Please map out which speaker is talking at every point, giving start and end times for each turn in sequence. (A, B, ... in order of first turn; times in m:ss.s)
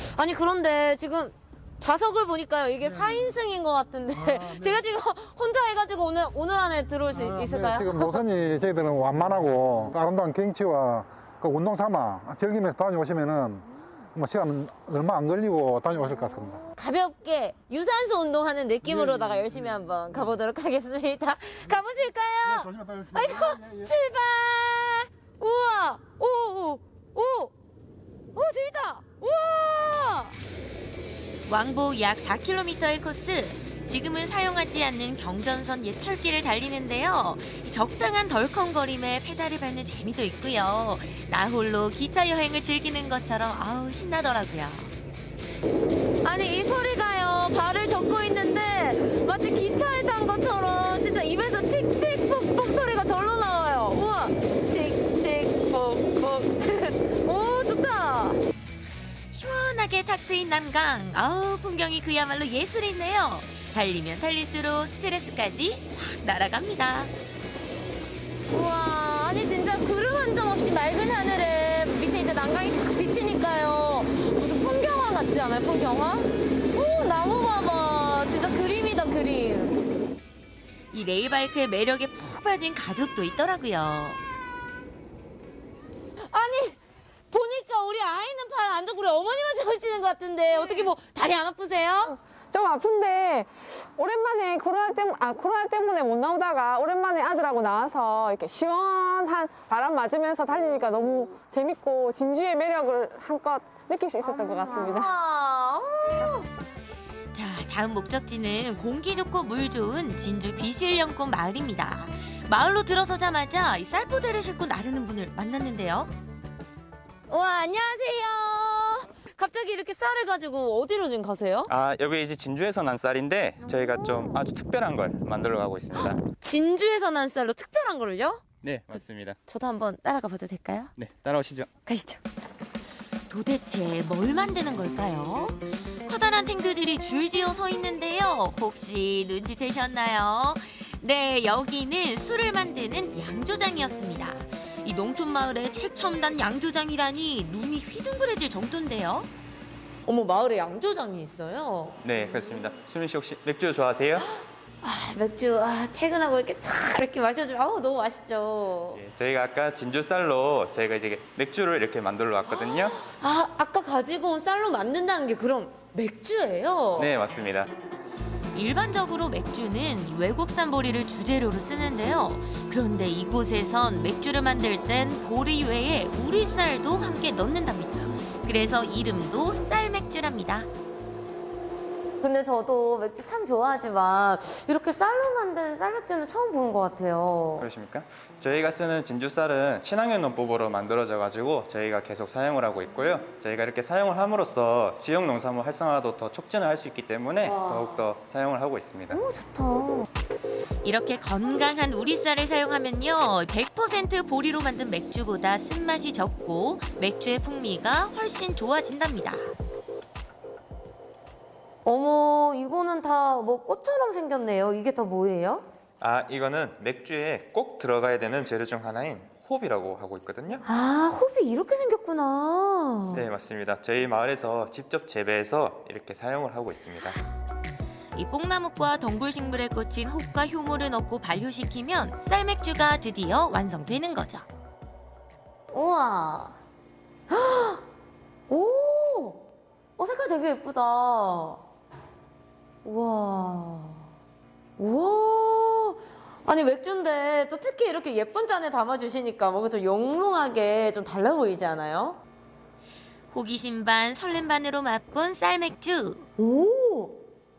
0:00.1-0:08.2 A
0:07.1-0:16.6 B
0:16.6-0:27.5 A
0:18.8-0:19.8 B
0:22.4-0:23.9 B
0:28.3-0:30.3 A
0:31.5-0:44.9 C
0:46.2-0:58.4 A
0:59.3-1:07.1 C
1:08.5-1:19.8 A
1:20.9-1:24.2 C
1:26.3-1:26.8 A
1:27.3-1:32.2 A
1:32.1-1:45.1 D
1:44.2-1:46.4 A
1:44.4-1:44.7 C
1:47.3-1:56.1 C
1:57.3-2:01.7 A
2:01.7-2:06.2 E
2:03.7-2:04.4 A
2:05.9-2:08.4 A
2:08.6-2:09.4 E
2:09.5-2:10.9 A
2:11.0-2:11.7 E
2:11.8-2:12.2 A
2:13.3-2:29.3 C
2:30.0-2:32.0 A
2:32.0-2:34.3 E
2:34.8-2:39.0 A
2:38.9-2:43.0 E
2:42.5-2:47.1 A
2:47.0-2:47.7 E
2:48.5-3:00.7 C
3:02.2-3:07.7 A
3:07.6-3:19.2 E
3:17.4-3:18.0 A
3:19.1-3:20.1 A
3:20.8-3:29.4 C
3:31.8-3:35.6 A
3:36.0-3:40.6 E
3:40.6-3:43.2 A
3:43.1-3:47.2 E
3:48.2-3:54.4 C
3:55.7-3:56.5 A
3:57.3-3:57.8 A
3:58.5-3:59.4 A
4:00.0-4:01.6 A
4:02.8-4:04.0 A
4:04.8-4:12.2 A
4:13.3-4:16.2 C
4:16.4-4:17.2 A